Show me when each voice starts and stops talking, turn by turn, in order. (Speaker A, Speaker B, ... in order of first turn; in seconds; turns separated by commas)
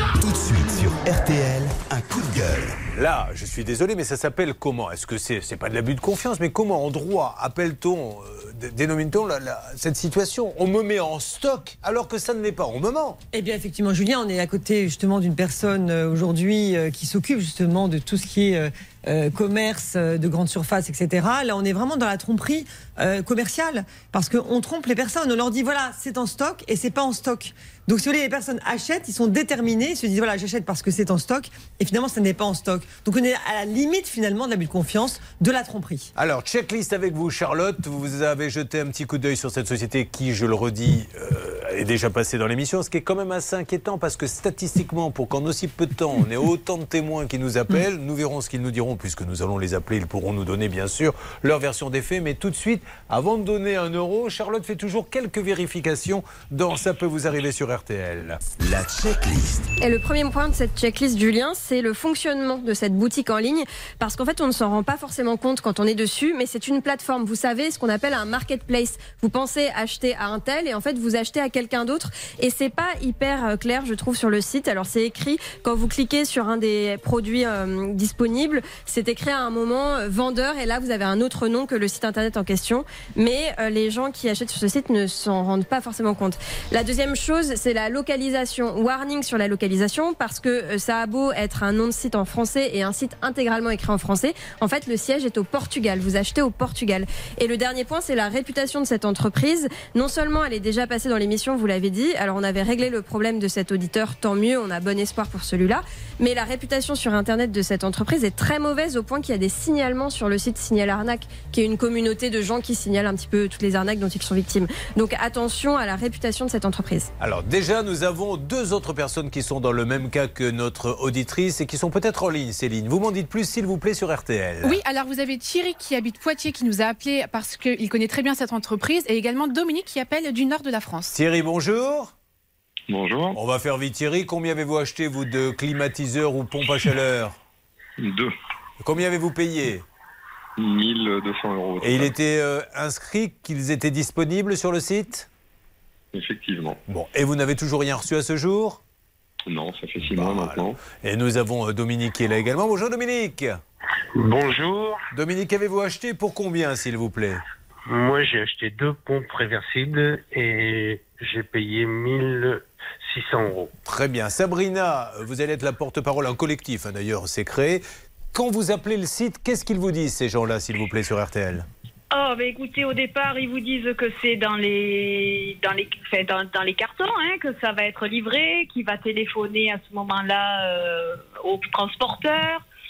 Speaker A: 0.2-2.8, Speaker B: 2.9-13.2, Speaker C: 13.3-36.1, Speaker B: 36.1-58.4, Speaker A: 58.6-59.7, Speaker D: 59.8-117.1, Speaker B: 117.2-124.8, Speaker E: 124.6-131.1, Speaker B: 131.1-132.1, Speaker F: 132.9-133.3, Speaker B: 133.3-137.3, Speaker B: 138.8-139.8, Speaker F: 140.6-142.1, Speaker B: 141.8-145.3, Speaker F: 146.2-146.7, Speaker B: 146.9-148.8, Speaker F: 149.5-150.7, Speaker B: 150.1-153.6, Speaker F: 154.2-155.0, Speaker B: 155.1-157.4, Speaker G: 157.9-163.7, Speaker B: 163.8-171.7, Speaker H: 172.1-182.6